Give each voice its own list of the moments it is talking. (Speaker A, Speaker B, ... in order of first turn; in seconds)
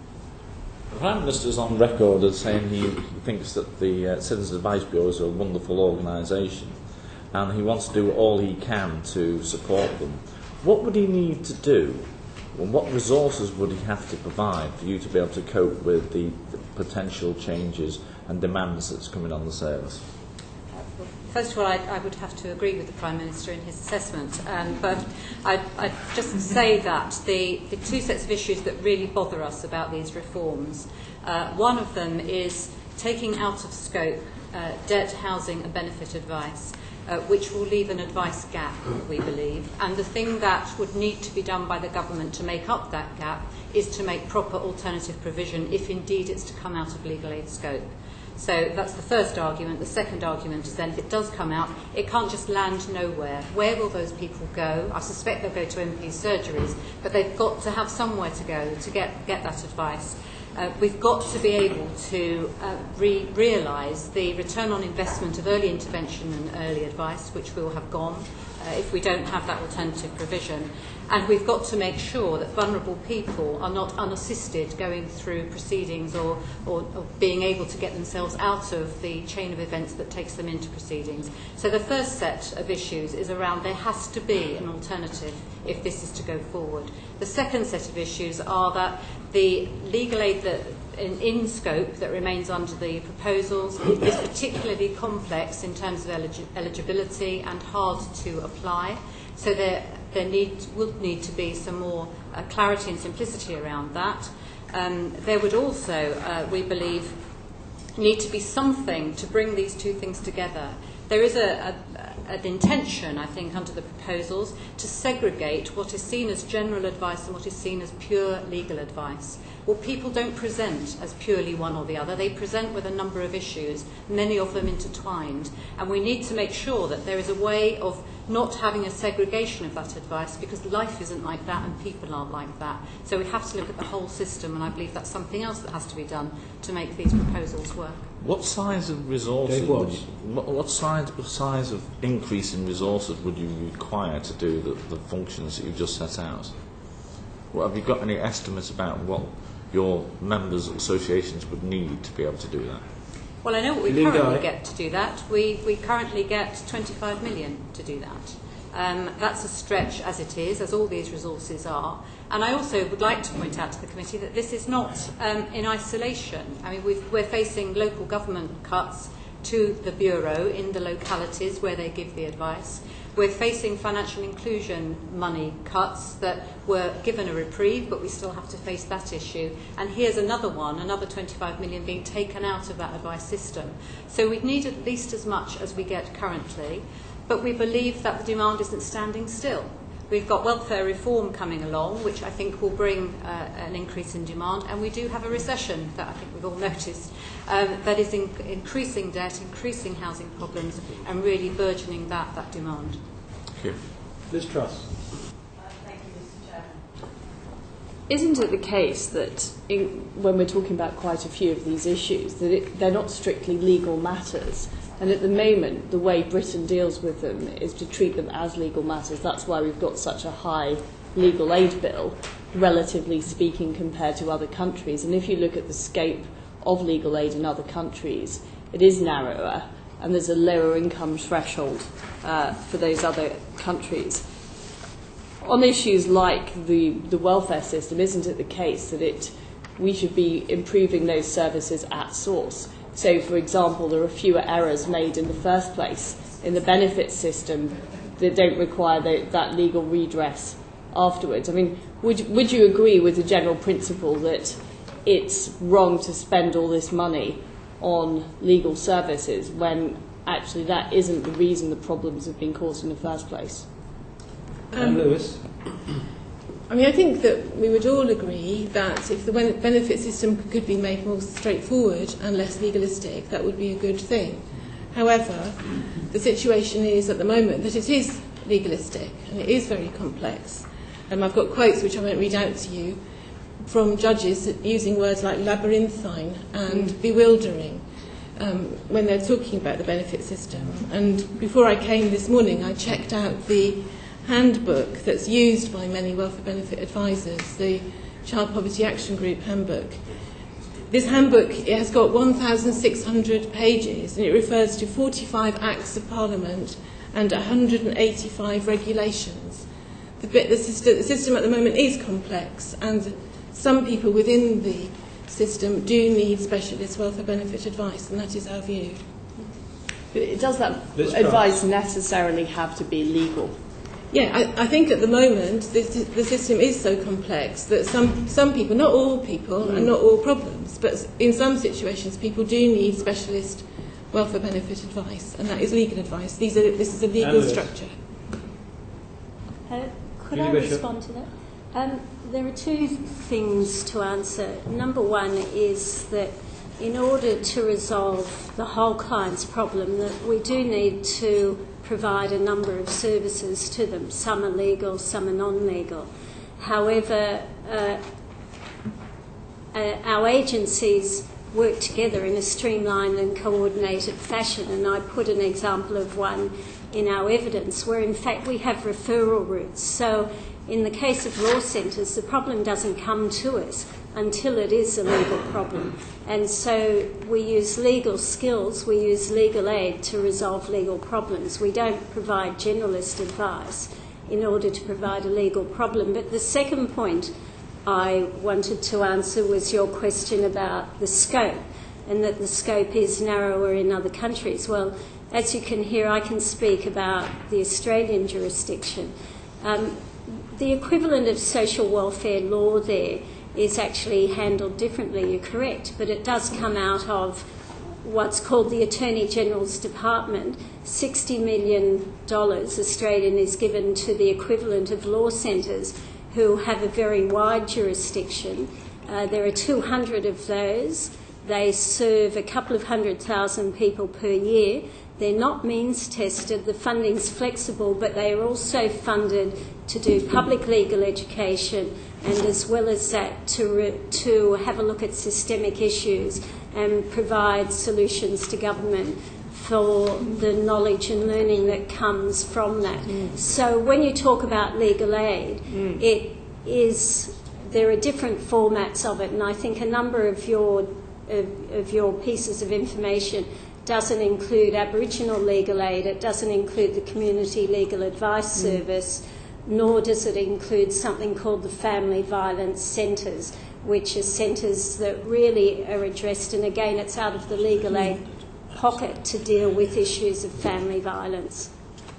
Speaker A: 0.9-20.1, 138.2-146.6, 147.5-152.8
Speaker B: 20.7-107.2, 108.0-138.1, 153.4-203.0
Speaker C: 139.5-140.1, 153.9-154.5, 204.3-205.1, 264.7-265.5, 320.9-321.6, 337.2-337.7, 340.3-340.9
Speaker D: 208.1-234.3, 235.4-263.7, 320.1-323.6
Speaker E: 264.7-265.3, 266.7-283.0, 283.6-287.9, 288.4-300.2, 300.8-309.7, 310.2-319.0, 324.1-337.9
Speaker F: 339.7-356.1, 356.6-358.0, 359.7-387.3, 387.9-407.5, 408.0-471.7